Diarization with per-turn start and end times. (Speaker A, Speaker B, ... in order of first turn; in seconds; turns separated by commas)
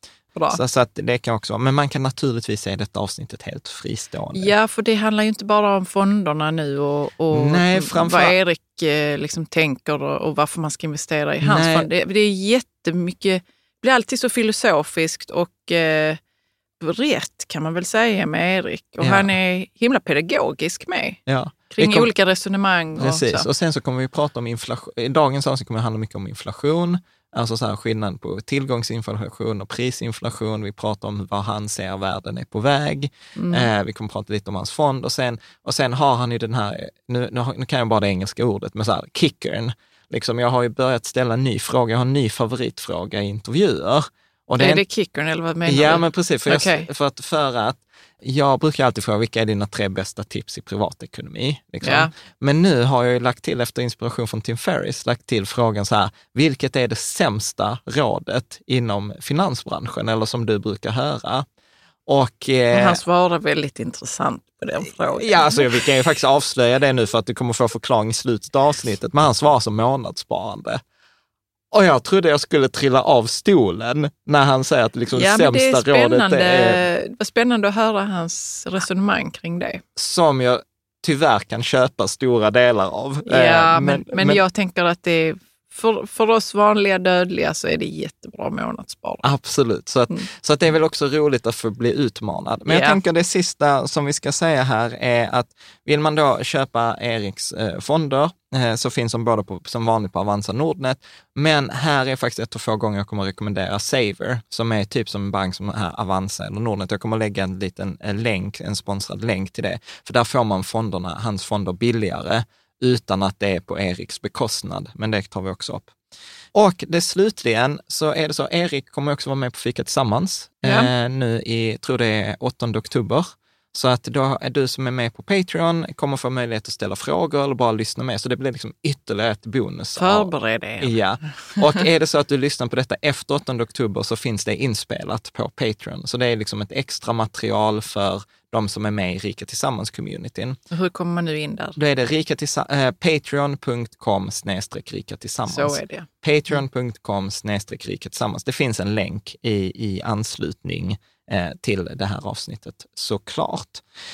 Speaker A: 0.3-0.6, Speaker B: 0.5-4.5, Speaker A: 4.3-16.2, Speaker B: 7.3-8.4, Speaker B: 11.4-11.9, Speaker A: 16.8-23.5, Speaker B: 19.0-19.3, Speaker B: 21.3-22.1, Speaker B: 23.0-44.8, Speaker A: 33.4-33.7, Speaker A: 44.6-46.9, Speaker B: 45.7-61.4, Speaker A: 51.8-52.1, Speaker B: 62.1-63.0, Speaker A: 62.7-65.7, Speaker B: 65.1-70.8, Speaker B: 71.7-76.8, Speaker A: 75.1-79.8, Speaker B: 80.0-84.4, Speaker A: 83.3-89.3, Speaker B: 89.2-115.9, Speaker A: 92.7-93.0, Speaker B: 116.5-140.6, Speaker A: 120.6-120.9, Speaker A: 130.0-130.9, Speaker A: 140.7-141.8, Speaker B: 141.8-153.8, Speaker A: 145.5-146.1